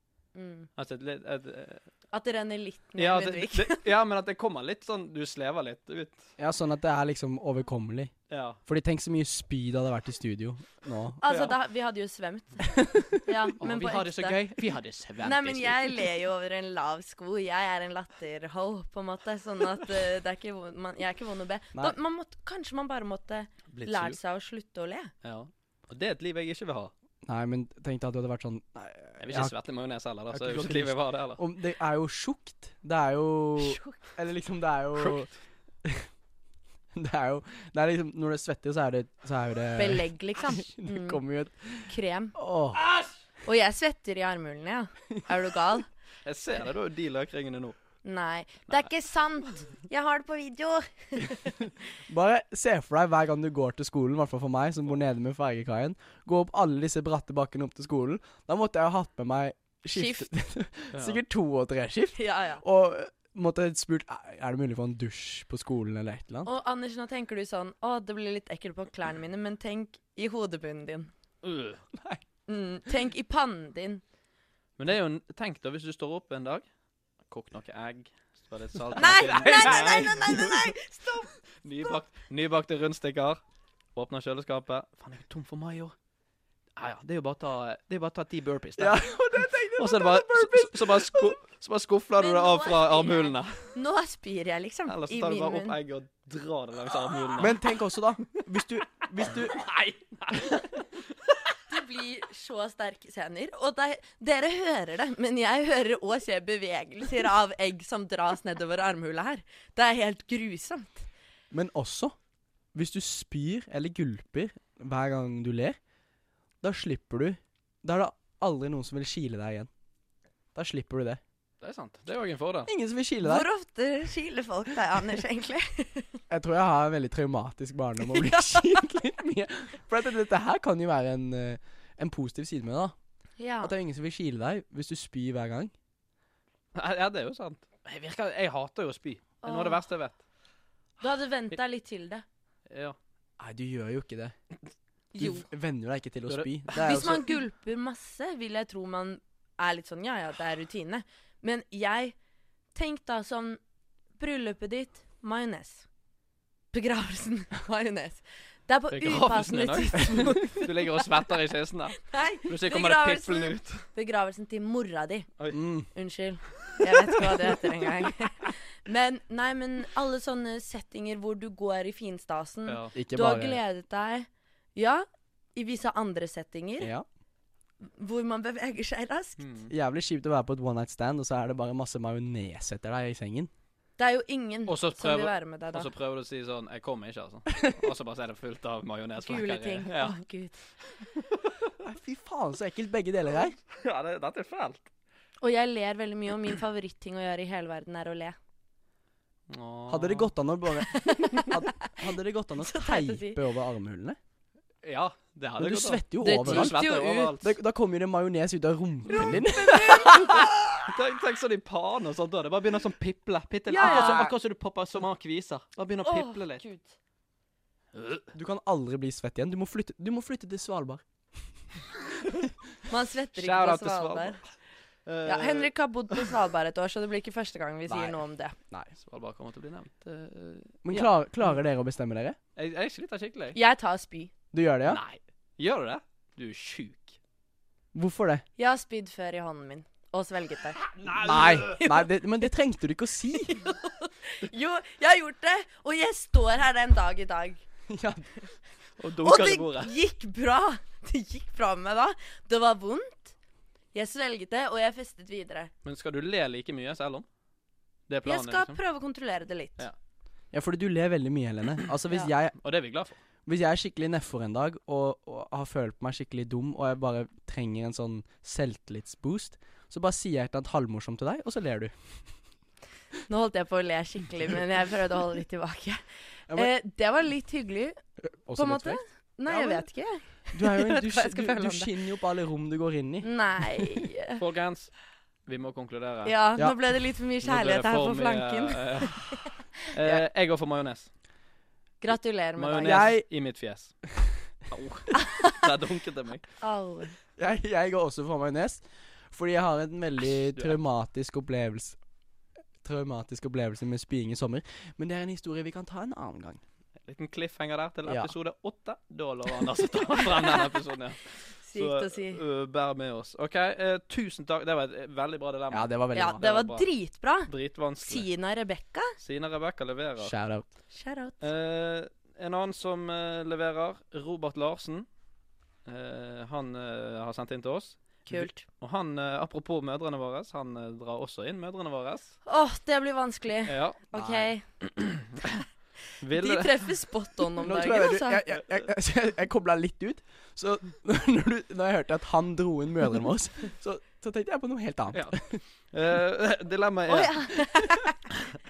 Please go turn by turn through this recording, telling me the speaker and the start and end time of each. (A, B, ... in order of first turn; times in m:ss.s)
0:00.3-0:00.7 A
0:00.8-0:01.8 B
0:02.1-0:03.8 A
0:03.0-0:06.3 B
0:06.4-0:08.1 C
0:08.3-0:08.6 B
0:08.6-0:11.2 C
0:11.2-0:14.4 A
0:11.3-0:11.6 B
0:12.7-0:13.1 C
0:13.6-0:16.1 B
0:15.2-0:25.1 A
0:23.7-0:24.2 B
0:25.2-0:26.9 B
0:27.2-0:29.5 C
0:29.2-0:31.4 B
0:30.3-0:35.3 C
0:33.6-0:33.9 A
0:35.0-0:35.3 B
0:36.9-0:42.8 C
0:39.8-0:41.2 A
0:41.9-0:42.3 A
0:42.8-0:43.1 B
0:43.4-0:45.9 A
0:46.2-0:47.8 B
0:48.0-0:51.7 A
0:52.1-1:06.5 C
0:59.9-1:00.3 A
1:00.9-1:01.2 B
1:02.2-1:02.6 A
1:06.4-1:11.1 A
1:11.4-1:11.8 B
1:11.9-1:12.2 C
1:12.5-1:14.0 A
1:14.8-1:16.6 B
1:17.2-1:20.6 B
1:18.9-1:20.4 C
1:19.0-1:21.3 A
1:21.6-1:23.4 B
1:23.9-1:25.9 B
1:26.8-1:29.0 B
1:28.8-1:31.4 C
1:29.8-1:33.6 B
1:32.2-1:35.8 A
1:34.9-1:37.6 B
1:37.4-1:39.6 C
1:39.2-1:40.9 B
1:41.7-1:51.1 A
1:51.5-1:52.2 C
1:52.7-1:55.8 C
1:56.6-1:59.7 C
2:00.5-2:01.2 C
2:01.6-2:02.7 B
2:02.7-2:03.4 C
2:03.2-2:06.1 A
2:06.3-2:12.9 C
2:08.1-2:08.8 A
2:13.4-2:13.7 A
2:13.6-2:15.7 C
2:16.7-2:20.2 B
2:19.4-2:19.8 A
2:21.0-2:22.2 A
2:22.7-2:23.0 B
2:23.4-2:24.3 C
2:25.1-2:25.4 A
2:25.2-2:27.2 C
2:26.3-2:27.2 B
2:26.7-2:32.1 A
2:32.7-2:33.6 A
2:34.2-2:35.8 A
2:36.7-2:40.7 A
2:38.9-2:43.8 B
2:42.0-2:45.3 A
2:45.5-2:45.9 C
2:45.9-2:56.9 A
2:52.7-2:52.9 B
2:52.9-2:53.6 C
2:56.8-2:57.0 C
2:57.8-2:59.4 A
2:59.4-2:59.7 B
2:59.7-3:03.5 C
3:04.0-3:05.9 A
3:04.7-3:10.2 B
3:09.2-3:10.6 A
3:11.8-3:13.6 C
3:13.7-3:14.9 B
3:15.4-3:18.4 A
3:19.5-3:20.3 B
3:19.9-3:24.2 C
3:20.9-3:21.9 A
3:22.6-3:23.4 A
3:24.8-3:27.5 B
3:25.6-3:26.7 C
3:26.2-3:27.3 A
3:27.4-3:30.5 C
3:29.1-3:30.5 A
3:30.3-3:36.6 B
3:33.7-3:34.3 A
3:33.8-3:34.3 C
3:36.0-3:36.9 A
3:37.9-3:38.3 B
3:38.3-3:41.0 C
3:42.9-3:44.4 A
3:43.4-3:44.5 B
3:45.0-3:46.3 B
3:45.2-3:48.6 A
3:47.9-3:48.9 C
3:49.0-3:51.0 B
3:50.8-3:52.4 C
3:52.6-3:53.6 B
3:53.5-3:54.3 A
3:54.5-3:55.0 C
3:54.8-3:57.2 B
3:57.9-3:58.4 C
3:58.6-4:00.8 A
4:00.9-4:01.8 B
4:01.1-4:03.6 C
4:01.7-4:02.1 A
4:03.4-4:07.6 A
4:07.9-4:08.3 C
4:09.0-4:09.9 B
4:09.2-4:13.3 A
4:13.9-4:15.7 A
4:15.8-4:17.2 B
4:18.1-4:18.8 B
4:18.2-4:19.8 A
4:20.5-4:22.6 C
4:22.6-4:23.2 B
4:23.4-4:32.2 C
4:33.3-4:36.0 A
4:36.5-4:38.0 A
4:38.2-4:39.0 C
4:38.5-4:41.9 A
4:39.5-4:39.8 B
4:40.5-4:43.9 C
4:43.2-4:44.4 A
4:44.4-4:44.9 B
4:45.4-4:46.3 B
4:46.2-4:49.5 A
4:47.4-4:49.3 B
4:49.9-4:51.1 B
4:52.0-4:53.1 A
4:52.6-4:54.1 B
4:52.8-4:53.2 C
4:54.7-4:56.4 B
4:56.6-4:57.2 A
4:57.4-5:02.0 C
5:00.3-5:00.8 B
5:02.8-5:06.6 C
5:07.0-5:16.8 B
5:08.0-5:08.3 C
5:10.4-5:10.6 A
5:11.6-5:12.4 A
5:15.7-5:16.4 C
5:16.1-5:17.5 A
5:17.4-5:18.3 B
5:18.0-5:19.1 A
5:19.2-5:20.3 B
5:20.2-5:20.7 C
5:20.9-5:21.4 A
5:21.4-5:25.0 B
5:25.8-5:32.4 B
5:28.3-5:28.6 A
5:32.4-5:34.6 A
5:33.6-5:34.2 B
5:34.2-5:34.5 C
5:34.8-5:35.6 B
5:36.2-5:36.9 B
5:36.3-5:38.4 A
5:37.6-5:45.6 C
5:45.1-5:47.8 B
5:47.1-5:48.1 A